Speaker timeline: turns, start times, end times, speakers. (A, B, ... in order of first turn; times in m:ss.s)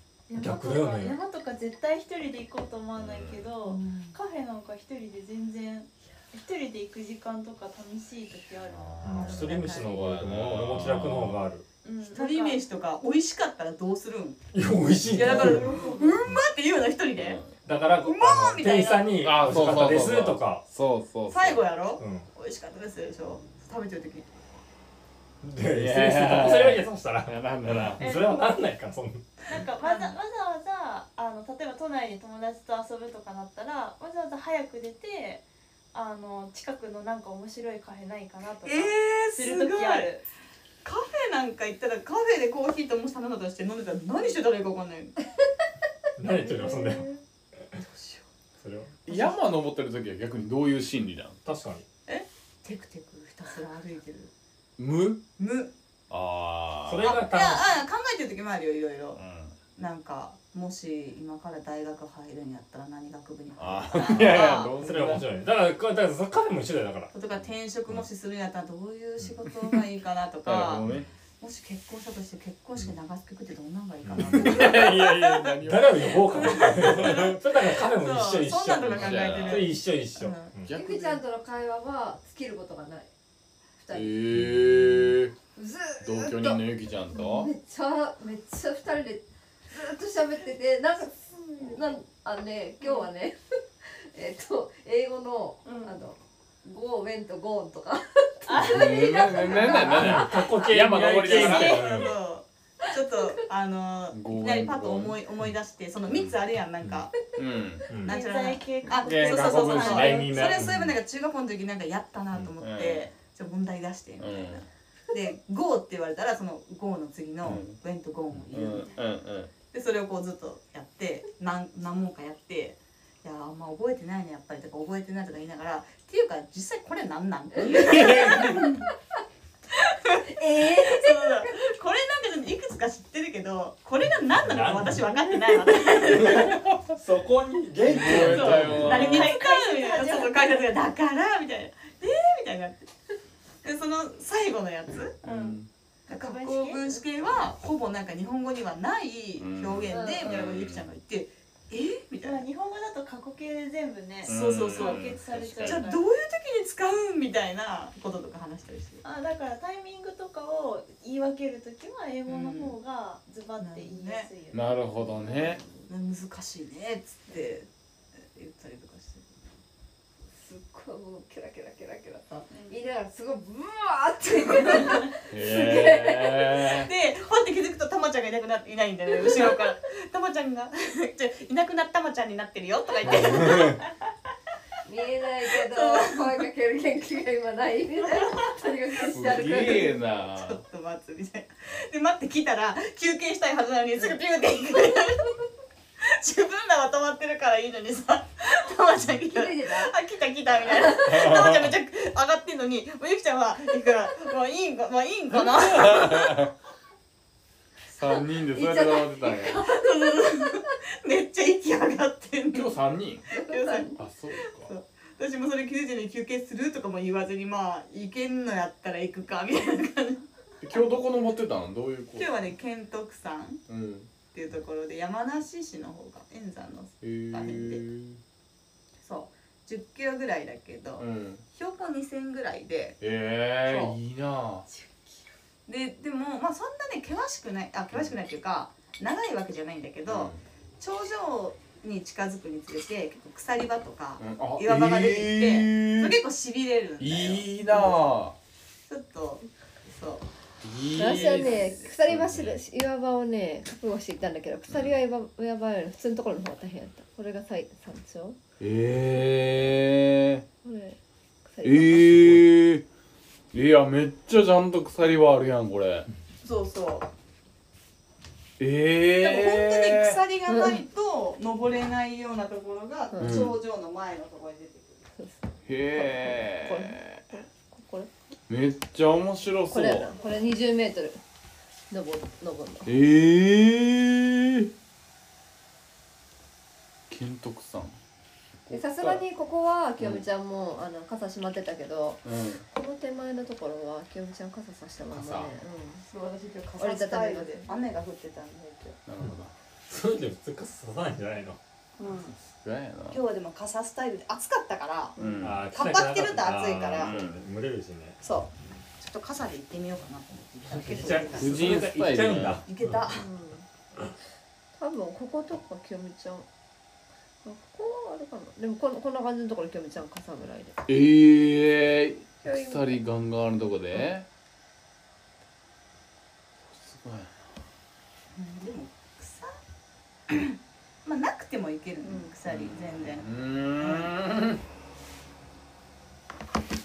0:00.3-0:09.6 A
0:00.4-0:01.2 B
0:03.0-0:03.5 C
0:03.6-0:04.2 D
0:08.6-0:11.4 C
0:09.0-0:11.7 B
0:09.1-0:09.9 D
0:11.8-0:12.6 A
0:12.0-0:14.4 D
0:14.5-0:16.4 B
0:15.1-0:17.4 D
0:15.2-0:15.6 C
0:15.6-0:16.1 A
0:17.2-0:17.5 C
0:17.6-0:20.6 B
0:18.0-0:19.2 D
0:19.2-0:21.7 C
0:21.3-0:24.3 D
0:22.0-0:22.3 B
0:25.4-0:29.6 B
0:25.7-0:28.0 C
0:28.0-0:28.5 A
0:29.5-0:40.3 A
0:29.8-0:30.2 D
0:38.6-0:40.1 D
0:40.8-0:45.2 D
0:46.2-0:47.1 B
0:47.8-0:48.3 D
0:48.6-0:49.0 B
0:49.1-0:49.4 D
0:49.1-0:51.4 C
0:51.4-0:51.8 B
0:52.1-0:54.3 D
0:54.8-0:55.3 C
0:55.4-0:55.7 D
0:56.1-0:57.2 C
0:56.8-0:57.7 B
0:57.0-0:59.2 D
0:59.2-0:59.6 C
0:59.8-1:04.7 D
1:03.6-1:05.3 C
1:04.2-1:07.1 B
1:07.1-1:10.9 D
1:10.4-1:11.1 C
1:11.4-1:15.5 D
1:14.0-1:20.7 B
1:14.2-1:17.2 C
1:16.3-1:20.5 D
1:18.8-1:19.7 C
1:20.6-1:21.2 C
1:20.7-1:23.1 E
1:23.8-1:24.2 E
1:23.9-1:25.3 C
1:24.3-1:25.2 B
1:25.6-1:26.6 E
1:26.0-1:27.5 C
1:27.1-1:40.3 E
1:32.8-1:33.1 A
1:35.6-1:36.0 A
1:38.5-1:39.7 A
1:38.6-1:42.1 C
1:39.7-1:42.1 B
1:41.2-1:47.2 D
1:44.1-1:45.2 C
1:47.3-1:47.9 C
1:47.9-1:48.2 B
1:48.0-1:59.0 D
1:48.1-1:50.3 A
1:49.0-1:50.8 C
1:49.8-1:51.0 B
1:52.6-1:53.1 C
1:54.2-1:54.6 C
1:57.4-1:57.8 C
1:58.5-1:59.5 C
1:59.7-2:08.9 D
2:07.6-2:08.8 C
2:09.7-2:16.6 D
2:10.4-2:11.6 E
2:14.3-2:15.2 B
2:15.9-2:19.3 B
2:16.1-2:16.7 C
2:17.9-2:19.3 C
2:18.0-2:22.9 D
2:18.3-2:20.6 A
2:23.6-2:25.2 D
2:25.2-2:25.7 C
2:25.2-2:27.0 A
2:26.1-2:32.5 D
2:29.4-2:30.9 C
2:29.9-2:30.3 E
2:29.9-2:30.3 A
2:32.2-2:36.0 A
2:34.2-2:35.8 C
2:34.2-2:39.0 D
2:39.0-2:45.6 A
2:42.3-2:42.8 D
2:43.6-2:44.3 D
2:44.5-2:45.6 C
2:45.2-2:45.8 E
2:45.9-2:49.3 D
2:50.3-2:56.7 E
2:55.3-2:56.9 C
2:56.7-3:03.9 D
3:03.0-3:03.8 C
3:04.8-3:09.9 E
3:05.6-3:06.3 D
3:09.1-3:10.6 C
3:09.3-3:15.4 D
3:16.0-3:26.4 D
3:19.1-3:19.9 E
3:20.7-3:21.3 E
3:21.0-3:21.7 C
3:25.3-3:26.5 C
3:27.9-3:29.6 C
3:28.5-3:30.6 E
3:29.6-3:32.8 D
3:32.5-3:33.2 C
3:33.3-3:33.9 D
3:33.3-3:34.0 E
3:34.0-3:34.7 C
3:34.6-3:40.2 D
3:40.6-3:42.4 C
3:42.2-3:43.6 D
3:43.7-3:44.1 C
3:44.3-3:47.8 D
3:47.0-3:48.2 C
3:49.0-3:53.0 D
3:51.0-3:51.4 C
3:53.0-3:54.7 C
3:53.6-3:54.0 D
3:55.7-4:08.1 D
4:00.1-4:00.4 C
4:04.2-4:06.2 C
4:07.0-4:08.4 C
4:08.9-4:10.3 D
4:10.6-4:12.6 C
4:11.0-4:11.9 D
4:11.0-4:18.4 E
4:14.7-4:15.0 C
4:18.6-4:20.4 C
4:20.6-4:22.4 E
4:21.6-4:22.8 C
4:23.5-4:26.1 C
4:26.4-4:27.1 D
4:28.6-4:30.2 C
4:29.2-4:35.1 D
4:30.5-4:30.8 E
4:33.1-4:33.5 E
4:33.2-4:33.6 C
4:35.2-4:38.1 E
4:35.7-4:37.2 C
4:38.5-4:40.1 C
4:39.7-4:41.2 E
4:41.9-4:43.0 E
4:42.9-4:44.7 C
4:47.1-4:48.0 C
4:48.7-4:49.2 C
4:48.7-4:56.0 E
4:50.0-4:50.2 C
4:52.2-4:52.7 C
4:55.1-4:55.5 C
4:56.0-4:59.0 D
4:56.8-4:57.6 E
4:59.1-4:59.5 C
4:59.9-5:01.6 B
5:02.0-5:02.3 D
5:02.3-5:03.2 C
5:03.1-5:07.1 D
5:05.2-5:05.6 C
5:05.4-5:08.2 B
5:07.0-5:07.4 C
5:08.2-5:11.9 D
5:10.7-5:13.2 B
5:11.3-5:12.6 C
5:12.6-5:13.2 D
5:13.1-5:13.7 E
5:14.8-5:16.5 E
5:17.4-5:20.8 E
5:20.9-5:24.3 C
5:22.4-5:23.0 E
5:26.6-5:27.4 C
5:28.3-5:29.6 D
5:30.3-5:33.3 D
5:32.0-5:32.3 E
5:32.5-5:34.6 C
5:33.8-5:34.1 D